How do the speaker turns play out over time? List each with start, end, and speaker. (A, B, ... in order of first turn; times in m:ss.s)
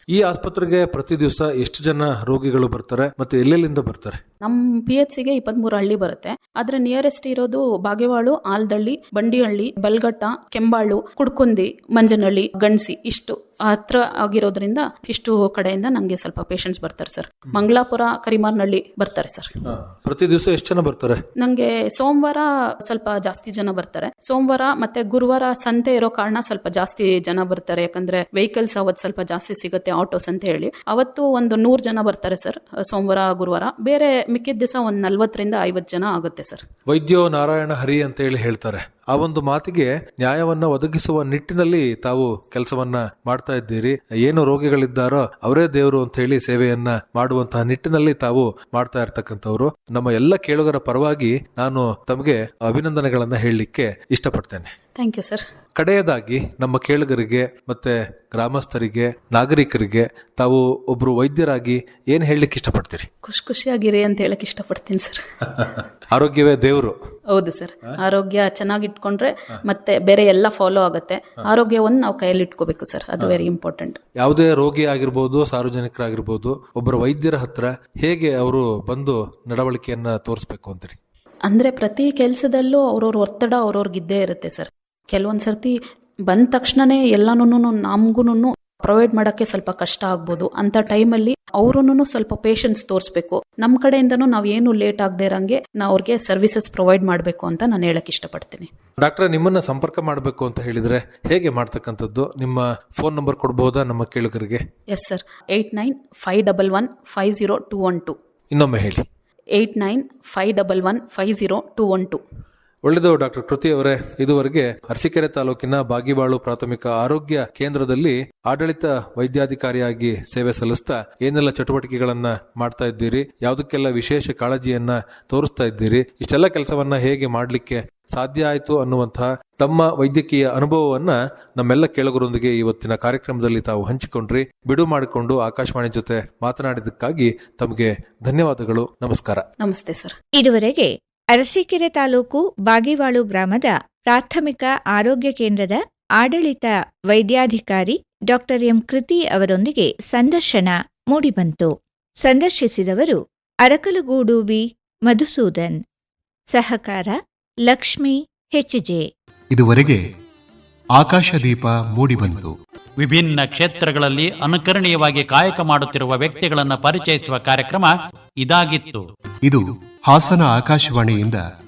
0:00.1-0:04.2 A
0:04.4-0:19.5 B
0:19.6-0:21.2 A
0:21.4-0:36.6 B
0:36.9-0:54.7 A
0:55.0-0:55.4 B
0:55.8-1:03.1 A
1:03.2-1:05.2 B
1:06.1-1:07.0 A
1:07.3-1:14.0 B
1:14.2-1:21.0 A
1:21.5-1:25.8 B
1:26.3-1:38.7 B
1:39.0-1:44.6 A
1:44.9-1:48.2 B
1:48.5-1:49.0 A
1:49.6-1:52.2 B
1:52.8-2:19.4 A
2:19.6-2:20.1 B
2:20.4-2:35.8 C
2:36.5-2:37.2 C
2:37.7-2:39.0 C
2:39.5-2:40.0 D
2:41.0-2:42.5 D
2:43.0-2:49.0 E
2:49.4-2:51.4 D